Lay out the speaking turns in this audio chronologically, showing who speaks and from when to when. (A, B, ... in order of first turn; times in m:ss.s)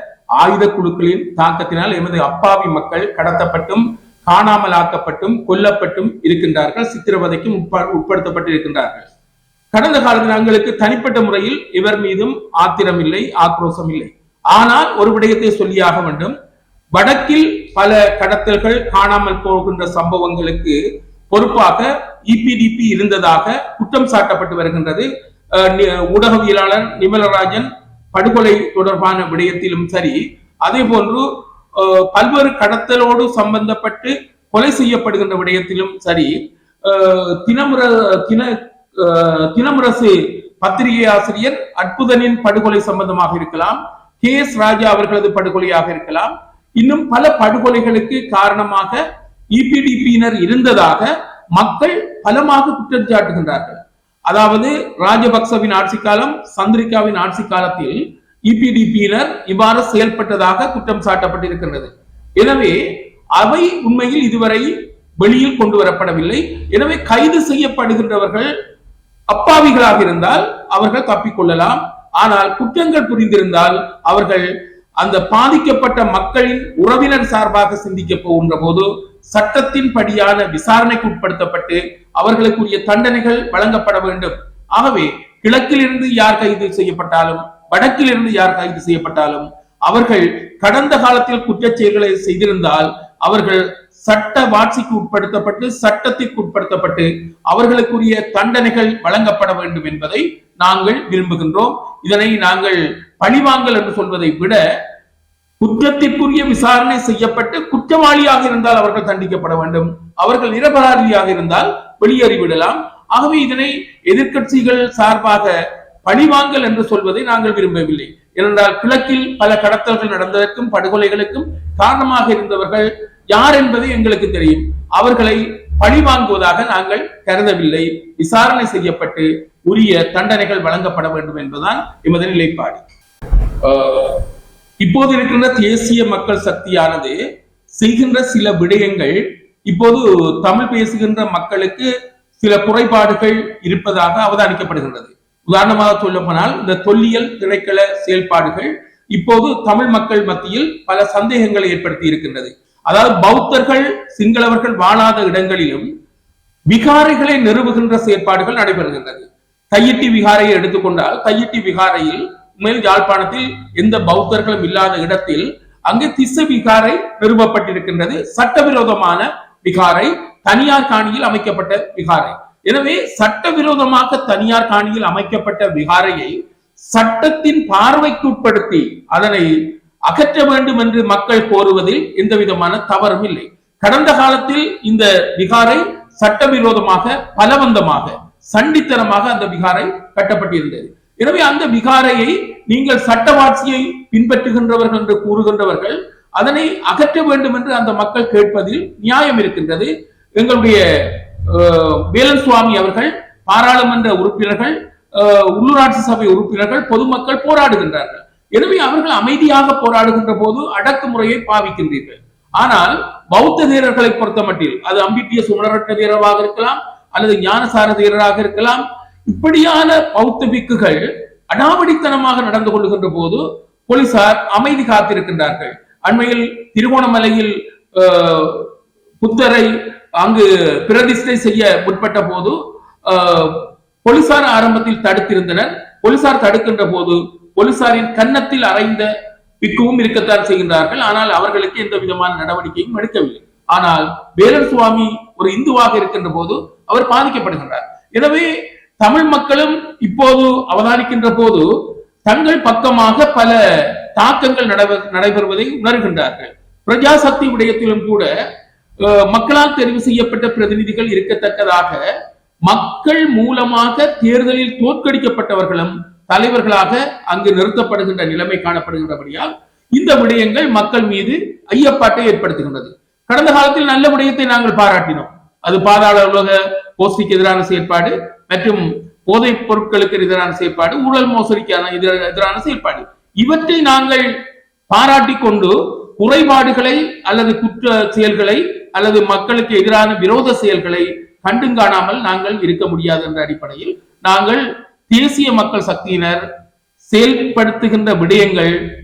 0:00.4-0:09.1 A
0:09.7-0:16.3 A
0:17.0-0:20.8 A
0:21.3-0:49.0 A
0:49.5-1:02.8 A
1:03.4-1:04.7 A
1:05.2-1:08.5 A
1:09.3-1:14.5 A
1:15.0-1:44.6 A
1:45.6-2:12.8 A
2:13.6-2:14.2 A
2:14.8-2:17.2 A
2:17.7-2:35.9 A
2:36.7-2:59.6 A
3:00.1-3:48.7 A
3:49.2-4:11.7 A
4:12.2-4:18.3 A
4:19.0-4:22.0 A
4:22.6-4:44.3 A
4:44.9-4:56.4 A
4:57.1-4:58.8 A